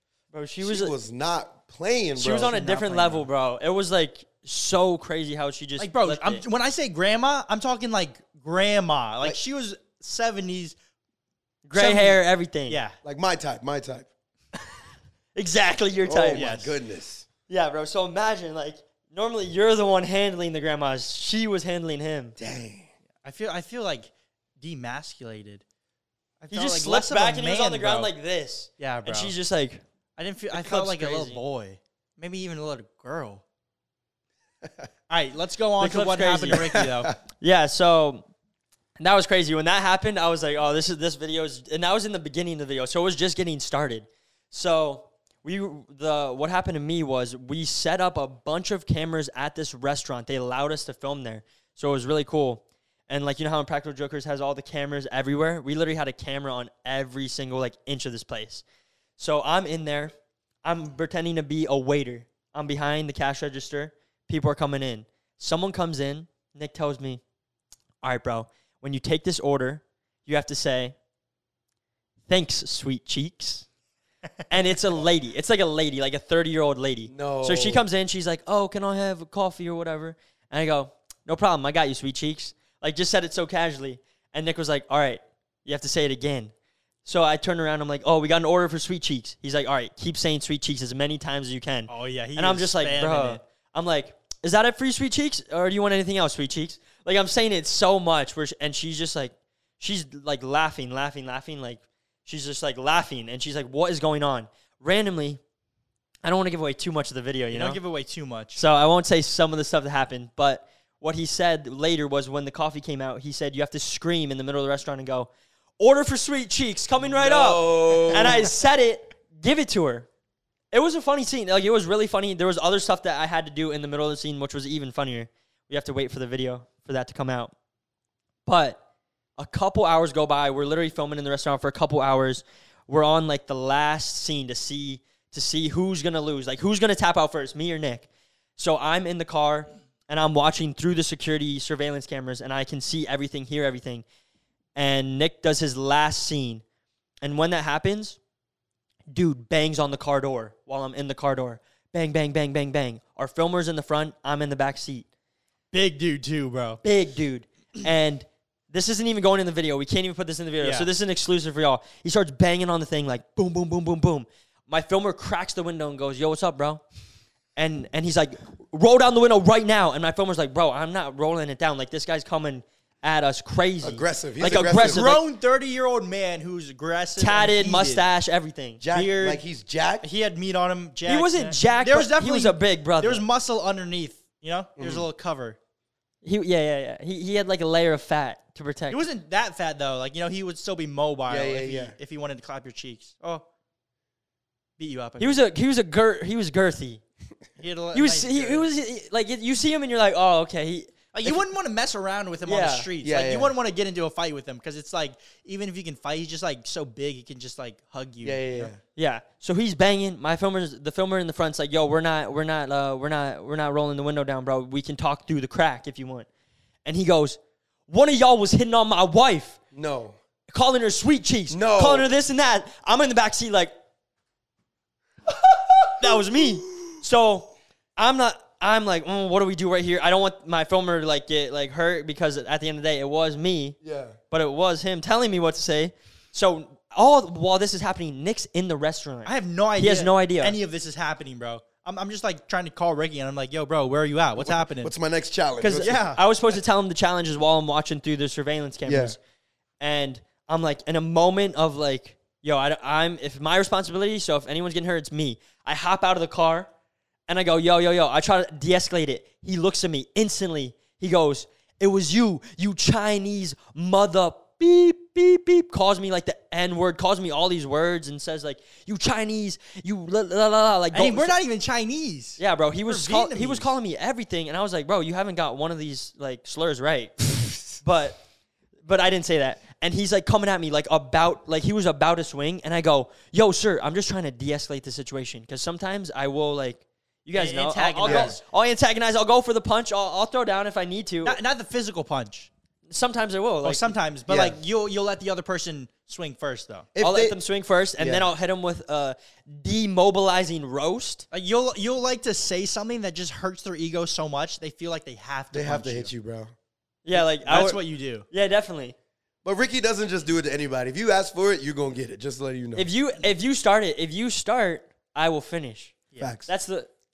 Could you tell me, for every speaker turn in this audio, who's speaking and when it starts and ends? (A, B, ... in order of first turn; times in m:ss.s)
0:00.3-0:00.9 A
0:00.6-0:02.5 B
0:02.2-0:06.4 A
0:02.4-0:03.3 C
0:05.8-0:10.8 C
0:11.6-0:12.8 A
0:11.8-0:13.0 C
0:13.0-0:14.1 B
0:15.4-0:16.4 A
0:16.0-0:17.3 B
0:16.3-0:16.7 C
0:17.5-0:22.4 A
0:22.4-0:22.9 B
0:23.2-0:25.6 C
0:26.4-0:28.1 C
0:26.5-0:29.8 A
0:28.8-0:29.4 C
0:30.2-0:33.4 C
0:30.5-0:31.4 A
0:35.1-0:37.2 C
0:35.8-0:36.8 A
0:36.7-0:37.1 B
0:37.4-0:38.3 A
0:39.0-0:58.6 A
0:59.2-1:00.1 A
1:00.6-1:07.2 A
1:08.0-1:11.0 A
1:12.3-1:13.7 A
1:14.5-1:26.5 A
1:17.1-1:17.8 B
1:27.0-1:45.4 A
1:31.9-1:33.4 C
1:46.2-1:47.8 A
1:47.5-1:48.6 C
1:48.6-2:00.1 A
1:57.1-1:58.5 B
2:00.7-2:07.5 A
2:08.5-2:08.8 A
2:09.4-2:24.0 A
2:24.8-2:26.6 A
2:27.2-2:28.2 A
2:29.1-2:35.1 A
2:35.7-2:36.8 C
2:36.8-2:46.8 A
2:40.6-2:40.9 C
2:47.6-2:55.2 A
2:53.8-2:55.0 B
2:54.7-2:58.0 C
2:57.2-2:58.8 A
2:58.8-3:00.1 B
2:58.9-2:59.4 C
3:00.0-3:05.6 C
3:01.1-3:03.2 A
3:04.8-3:05.1 B
3:06.2-3:09.0 A
3:08.9-3:13.4 C
3:11.3-3:12.0 B
3:14.8-3:15.4 C
3:15.2-3:17.0 A
3:17.6-3:18.7 C
3:17.9-3:21.4 A
3:21.1-3:28.7 C
3:22.5-3:22.9 A
3:23.0-3:23.5 B
3:28.2-3:28.8 B
3:29.0-3:36.3 A
3:36.8-3:39.6 A
3:39.7-3:40.2 B
3:40.5-3:43.7 A
3:41.5-3:42.1 B
3:45.3-3:47.0 B
3:46.0-3:53.8 A
3:53.8-3:54.2 B
3:54.3-4:00.6 A
3:59.2-4:04.9 C
4:04.4-4:06.0 B
4:05.6-4:09.2 A
4:05.7-4:06.2 C
4:08.9-4:09.2 B
4:09.8-4:16.7 A
4:17.3-4:31.4 A
4:30.9-4:33.7 C
4:32.4-4:38.2 A
4:38.8-4:51.4 A
4:47.3-4:48.4 C
4:48.0-4:48.4 B
4:51.2-4:52.5 C
4:52.9-4:53.9 A
4:53.6-4:56.9 C
4:54.3-4:54.6 B
4:56.9-4:57.4 B
4:57.0-5:01.3 A
4:58.0-4:58.3 B
5:01.3-5:06.1 C
5:05.5-5:06.5 B
5:07.0-5:09.0 A
5:07.1-5:08.3 C
5:09.4-5:12.9 B
5:12.8-5:16.0 A
5:16.2-5:16.5 B
5:16.5-5:16.9 A